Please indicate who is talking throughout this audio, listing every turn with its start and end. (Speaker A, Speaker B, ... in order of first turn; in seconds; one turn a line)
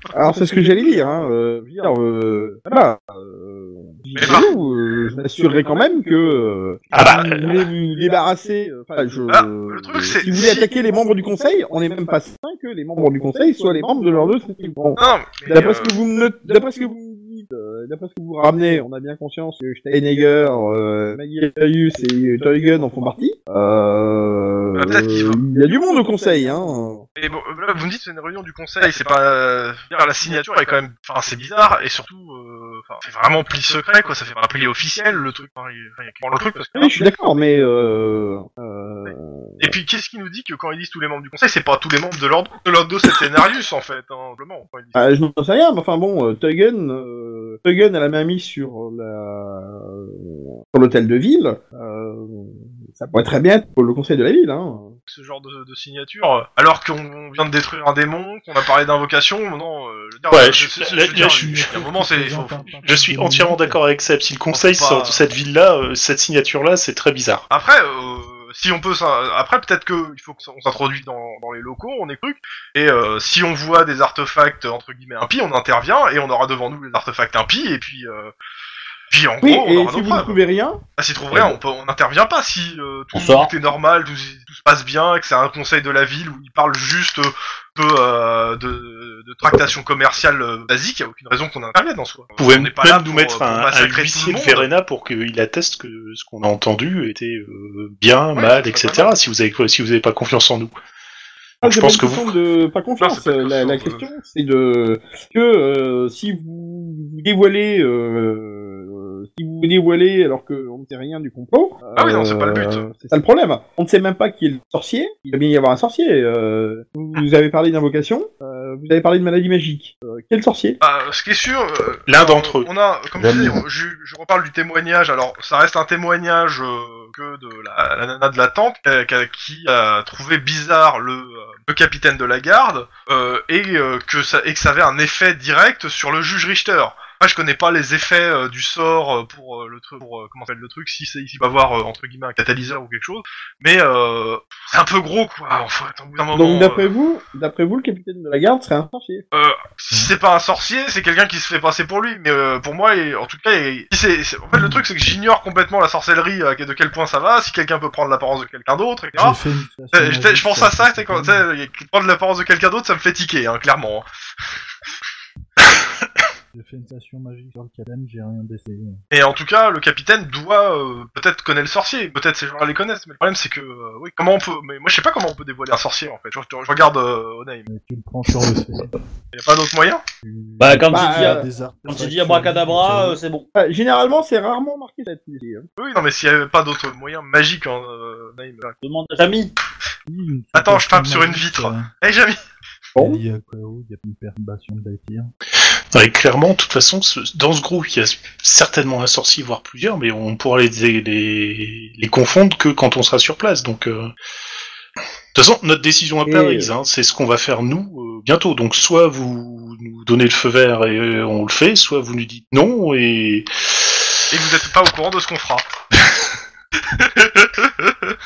Speaker A: 0.1-27.1
Speaker B: 4.2-4.5
Speaker C: 6.9-7.7
Speaker B: 9.3-10.6
Speaker B: 15.0-15.9
Speaker B: 24.8-25.4
Speaker B: 27.2-37.0
Speaker A: 36.7-39.7
Speaker B: 39.1-45.0
Speaker A: 44.9-55.0
Speaker B: 55.1-62.8
Speaker C: 60.3-61.4
Speaker D: 61.1-63.8
Speaker C: 62.8-67.4
Speaker B: 64.5-65.2
Speaker B: 67.5-78.3
Speaker B: 79.1-80.4
Speaker A: 79.4-80.8
Speaker B: 81.0-94.7
Speaker E: 83.1-83.5
Speaker C: 92.4-100.8
Speaker B: 98.3-99.1
Speaker C: 101.6-102.3
Speaker A: 101.6-120.8
Speaker B: 103.0-104.1
Speaker B: 112.0-112.8
Speaker B: 120.8-146.9
Speaker C: 122.1-122.7
Speaker E: 123.1-123.6
Speaker A: 146.3-149.2
Speaker B: 149.3-159.4
Speaker D: 154.5-154.8
Speaker D: 159.2-161.4
Speaker B: 159.9-164.0
Speaker D: 166.5-169.0
Speaker B: 169.1-177.7
Speaker D: 177.7-178.9
Speaker B: 179.3-180.0
Speaker D: 180.2-183.2
Speaker E: 180.6-183.5
Speaker A: 180.9-181.4
Speaker A: 183.5-185.7
Speaker B: 185.8-188.8
Speaker E: 188.8-189.5
Speaker D: 190.1-191.9
Speaker B: 190.5-192.4
Speaker A: 192.9-193.2
Speaker D: 192.9-195.3
Speaker C: 195.7-204.1
Speaker C: 205.3-214.2
Speaker A: 206.2-206.7
Speaker B: 214.3-215.7
Speaker B: 216.9-218.1